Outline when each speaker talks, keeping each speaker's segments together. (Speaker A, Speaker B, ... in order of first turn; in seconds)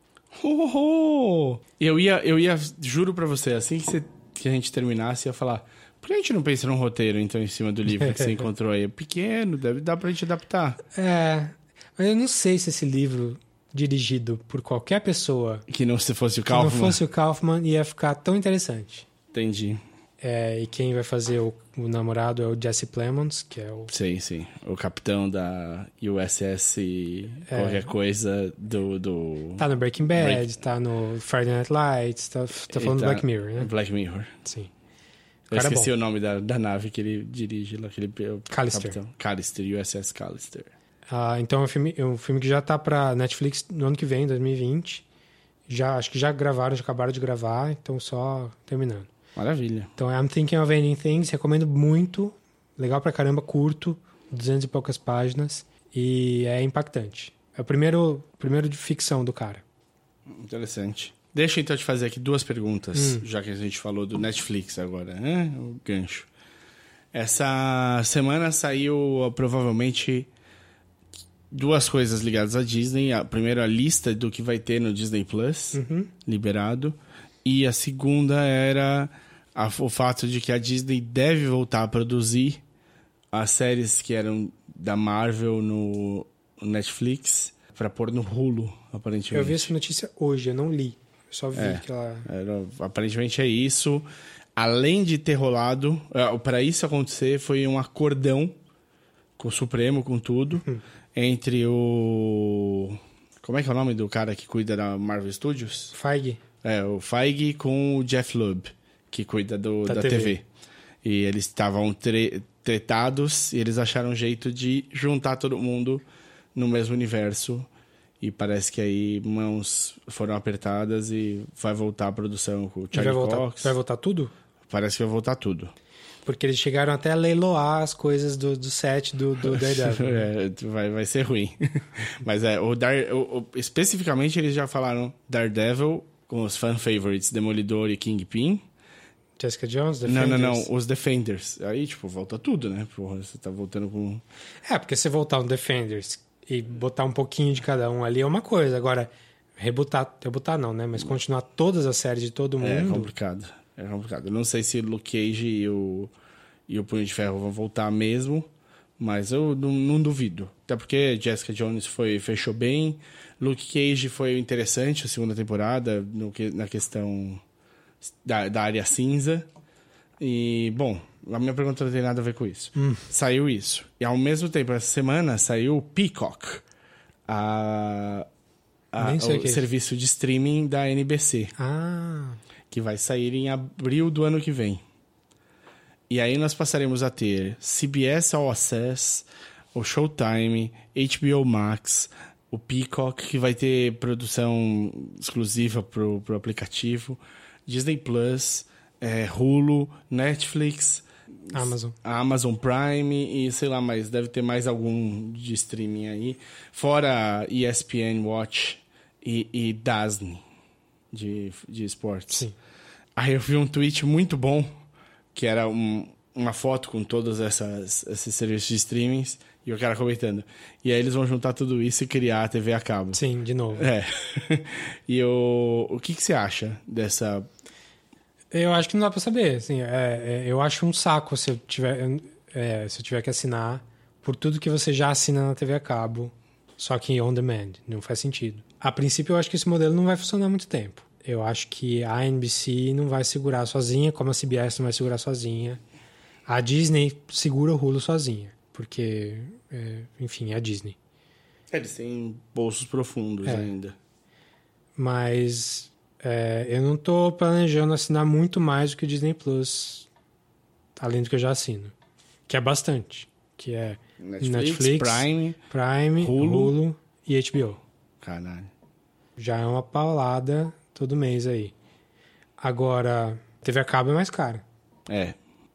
Speaker A: 0.3-10.8, 15.7-17.0, 19.3-19.8, 23.9-29.6, 30.1-30.4, 32.7-34.4, 35.5-40.7, 49.4-49.9, 60.3-66.3, 67.1-70.3, 71.5-82.6, 83.3-89.7, 91.5-98.5, 99.4-105.9, 106.6-110.4, 111.0-116.0, 116.5-117.7, 118.2-123.7, 124.7-125.7, 129.4-138.6, 140.0-144.2, 152.6-156.1, 156.7-167.4, 168.0-169.5, 170.2-176.6, 177.3-178.3, 178.9-181.5, 182.7-184.8, 186.1-210.4, 211.1-212.4, 213.2-214.7, 215.3-223.2, 223.7-227.5, 251.7-253.9, 264.2-265.6, 266.2-266.8, 268.2-268.7, 275.1-275.4
Speaker B: 10.9-15.7, 16.5-19.1, 20.2-23.9, 27.5-27.9, 29.6-33.7, 34.4-34.7, 35.5-35.9, 38.5-39.0, 41.1-45.0, 45.7-49.1, 50.0-59.6, 62.9-63.2, 75.7-76.1, 89.3-92.3, 105.9-106.4, 109.9-110.4, 122.9-124.3, 126.2-130.3, 139.4-140.7, 144.7-153.1, 172.8-173.0, 179.0-179.7, 181.6-182.4, 201.5-202.0, 223.1-223.9, 228.5-245.8, 246.5-251.0, 253.4-253.7, 254.9-260.1, 261.0-261.9, 262.5-267.8, 269.4-271.7, 272.6-274.6